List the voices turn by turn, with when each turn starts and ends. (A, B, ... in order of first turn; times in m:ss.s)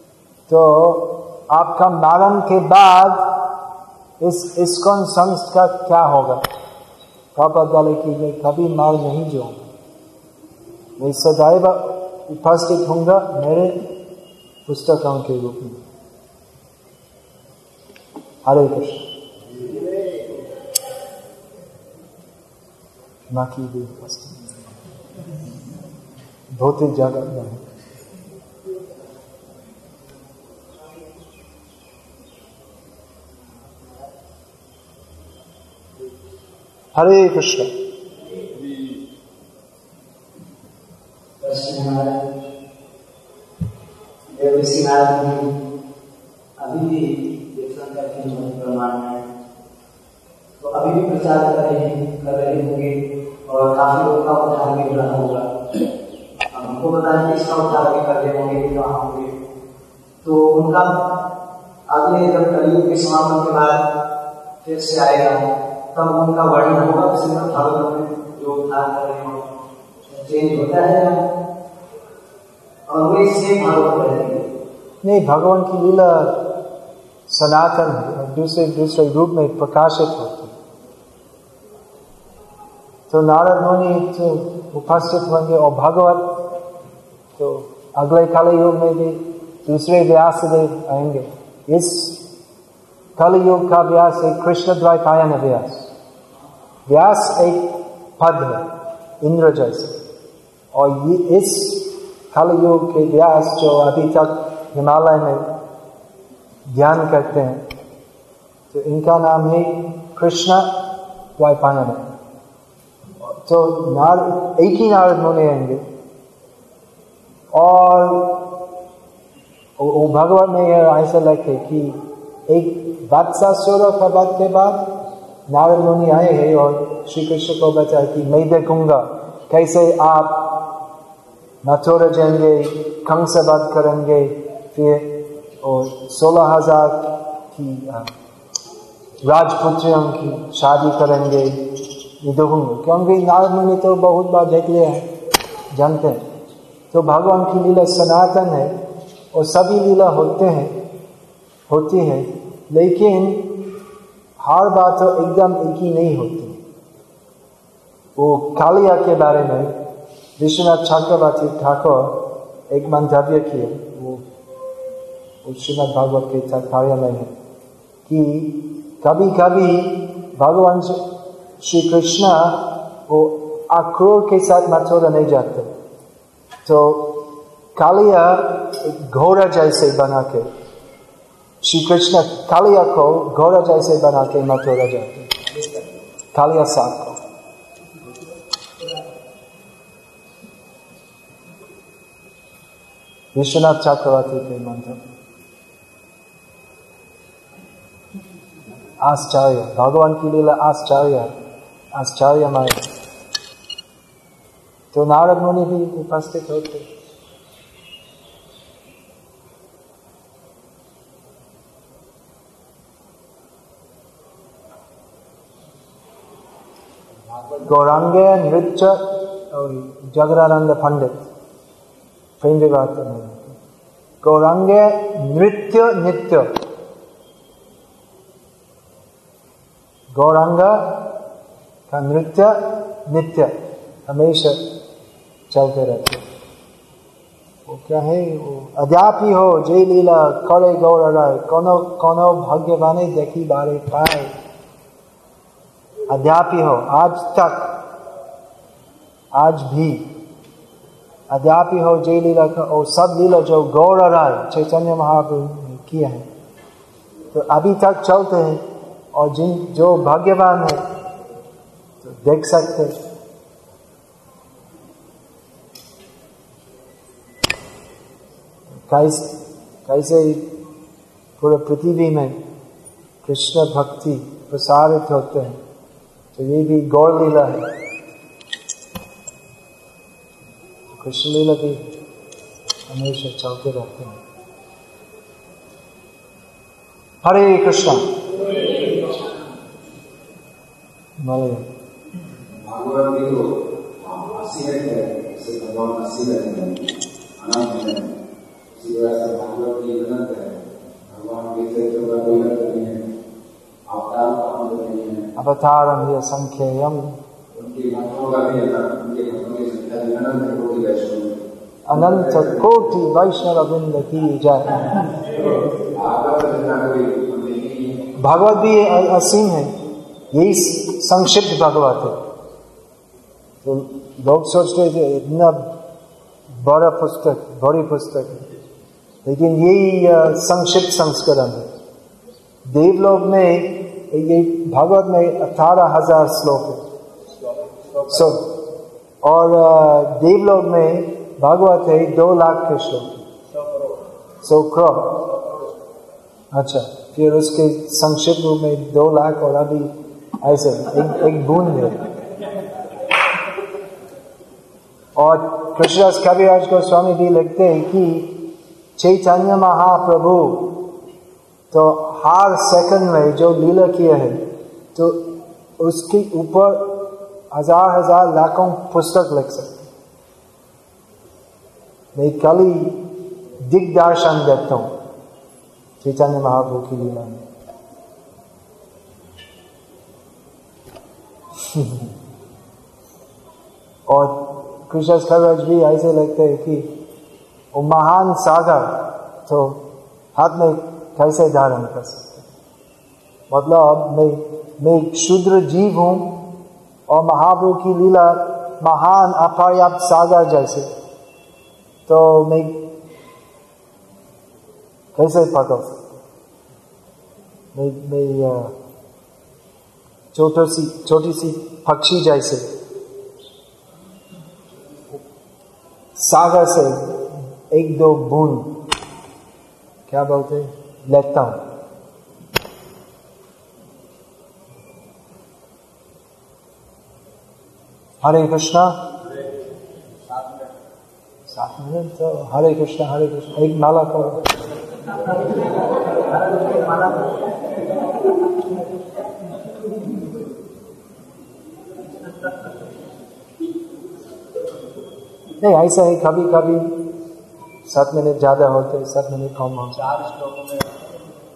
0:00.5-0:03.3 A
0:04.2-0:06.4 A
0:07.3-0:09.6 A
0:11.0-0:13.8 A
0:14.6-0:15.8 A
0:18.4-0:19.1 A
0:23.3-0:24.5 A
0:26.5-0:27.6 A
0:36.9-0:37.7 A
0:41.4-0:42.2 B
0:44.3-0:45.5 B
0:46.6-0:49.2 B
0:50.6-0:55.4 B
0:56.5-0:59.3 B
1:00.2-1:01.0 B
1:01.9-1:03.8 B
1:04.6-1:09.4 B
1:10.1-1:11.2 B
1:12.9-1:14.4 B
1:15.0-1:16.4 A
1:17.3-1:20.5 A
1:23.1-1:26.4 A
1:27.4-1:32.2 A
1:33.2-1:35.9 A
1:36.9-1:38.7 A
1:39.2-1:40.0 A
1:40.7-1:45.5 A
1:46.7-1:47.6 A
1:48.7-1:50.8 A
1:51.4-1:52.0 A
1:53.2-1:55.8 A
1:57.5-1:58.4 A
1:59.8-2:04.9 A
2:05.5-2:10.6 A
2:11.6-2:18.1 A
2:19.2-2:21.6 A
2:22.2-2:25.1 A
2:25.7-2:26.2 A
2:26.9-2:28.8 A
2:29.3-2:30.8 A
2:31.7-2:33.5 A
2:34.4-2:36.6 A
2:38.2-2:39.7 A
2:40.4-2:44.2 A
2:45.4-2:47.3 A
2:48.1-2:51.0 A
2:51.6-2:55.7 A
2:56.6-2:57.2 A
2:57.8-3:00.5 A
3:01.6-3:05.3 A
3:05.5-3:05.8 C
3:06.3-3:07.2 A
3:13.3-3:15.1 A
3:19.0-3:21.3 A
3:21.9-3:22.9 A
3:24.9-3:26.9 A
3:37.3-3:37.7 C
3:37.6-3:41.2 A
3:42.4-3:43.6 A
3:44.2-3:46.5 A
3:50.1-3:51.1 A
3:51.9-3:54.6 A
3:55.5-3:56.2 A
3:57.6-4:04.3 A
4:06.1-4:07.8 A
4:09.3-4:10.1 A
4:11.3-4:16.3 A
4:17.3-4:18.6 A
4:19.1-4:20.8 A
4:22.0-4:23.0 A
4:28.7-4:30.4 A
4:31.4-4:32.4 A
4:33.2-4:35.6 A
4:36.3-4:37.7 A
4:40.9-4:41.8 A
4:42.9-4:44.2 A
4:47.2-4:48.1 A
4:51.2-4:51.7 A
4:52.6-4:58.2 C
4:58.7-5:03.0 C
5:03.9-5:05.3 C
5:05.4-5:07.2 A
5:07.5-5:11.4 C
5:11.9-5:15.0 A
5:12.1-5:12.7 C
5:15.2-5:18.1 C
5:18.2-5:19.7 A
5:20.3-5:22.2 A
5:23.6-5:25.7 A
5:26.6-5:28.5 A
5:29.2-5:31.7 A
5:32.6-5:36.8 A
5:37.3-5:38.4 C
5:38.1-5:38.5 A
5:39.2-5:43.2 A
5:43.5-5:44.0 C
5:44.4-5:45.2 A
5:45.2-5:45.7 C
5:46.5-5:52.0 A
5:55.1-5:58.4 A
5:59.0-6:00.8 A
6:01.7-6:04.4 A
6:04.9-6:05.2 A
6:05.8-6:09.9 A
6:12.1-6:13.0 A
6:13.6-6:14.9 A
6:16.0-6:17.4 A
6:21.6-6:22.1 A
6:24.1-6:26.9 A
6:27.7-6:29.8 A
6:30.3-6:32.5 A
6:33.5-6:36.4 A
6:37.1-6:40.9 A
6:42.1-6:42.8 A
6:45.1-6:46.2 A
6:47.7-6:48.7 A
6:50.3-6:52.7 A
6:56.2-6:58.8 A
7:00.1-7:01.6 A
7:08.2-7:09.0 A
7:10.2-7:10.7 C
7:11.5-7:14.4 A
7:15.3-7:17.6 B
7:25.6-7:27.0 A
7:27.8-7:30.0 A
7:29.9-7:31.1 C